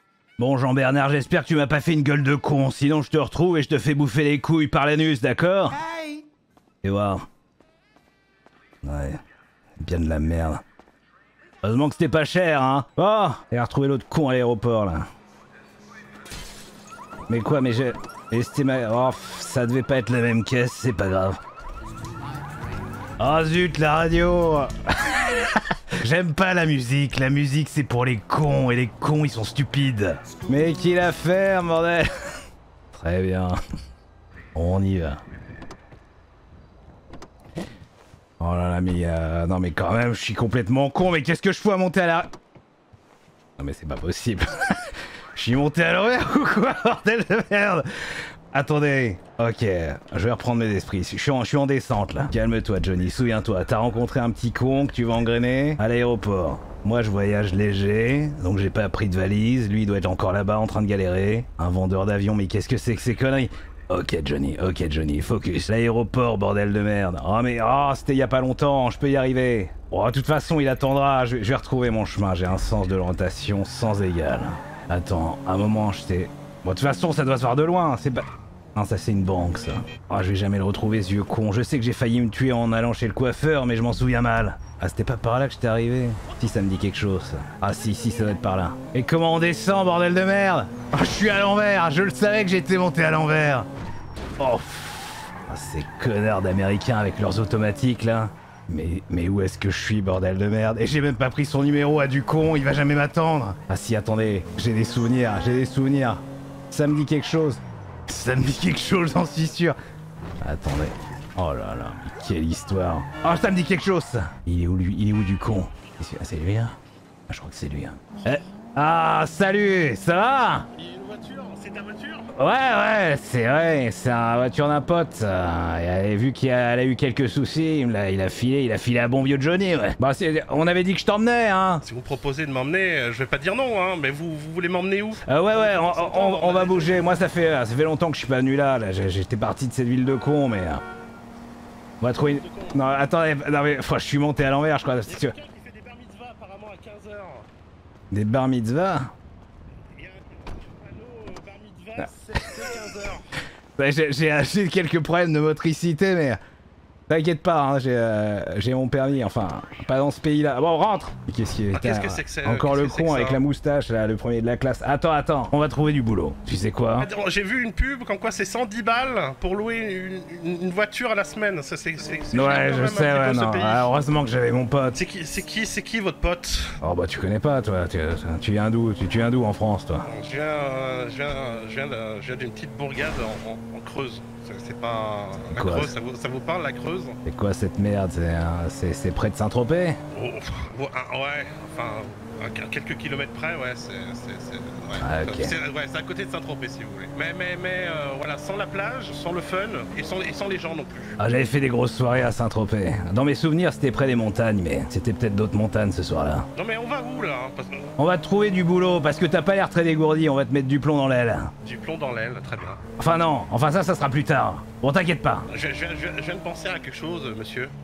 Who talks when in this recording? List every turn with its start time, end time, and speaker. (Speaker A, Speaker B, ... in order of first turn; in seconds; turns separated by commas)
Speaker A: 0.4-6.2, Speaker A: 6.8-7.2, Speaker A: 8.8-9.2, Speaker A: 9.8-10.6, Speaker A: 11.6-15.1, Speaker A: 17.3-21.4, Speaker A: 23.2-32.1, Speaker A: 32.9-33.5, Speaker A: 34.5-35.2, Speaker A: 38.4-42.3, Speaker A: 43.6-93.7, Speaker A: 94.4-109.8, Speaker A: 110.4-116.7, Speaker A: 117.3-120.7, Speaker B: 118.2-118.5, Speaker B: 120.7-122.3, Speaker A: 122.3-131.8, Speaker B: 131.8-137.2, Speaker A: 135.2-140.8, Speaker A: 142.0-145.3, Speaker B: 142.2-142.9, Speaker B: 145.0-147.5, Speaker A: 148.1-149.1, Speaker B: 149.9-153.3, Speaker A: 153.8-156.4, Speaker A: 157.1-167.1, Speaker B: 161.7-163.4, Speaker B: 167.0-174.0, Speaker A: 172.3-175.0, Speaker B: 174.9-176.8, Speaker A: 176.8-180.1, Speaker B: 180.0-187.2, Speaker A: 185.5-185.9, Speaker A: 187.2-190.0, Speaker B: 190.1-201.4, Speaker A: 195.0-195.5, Speaker A: 201.2-206.5, Speaker B: 206.5-207.9, Speaker A: 208.0-211.5, Speaker B: 211.6-212.8, Speaker A: 213.0-215.5, Speaker B: 215.5-217.7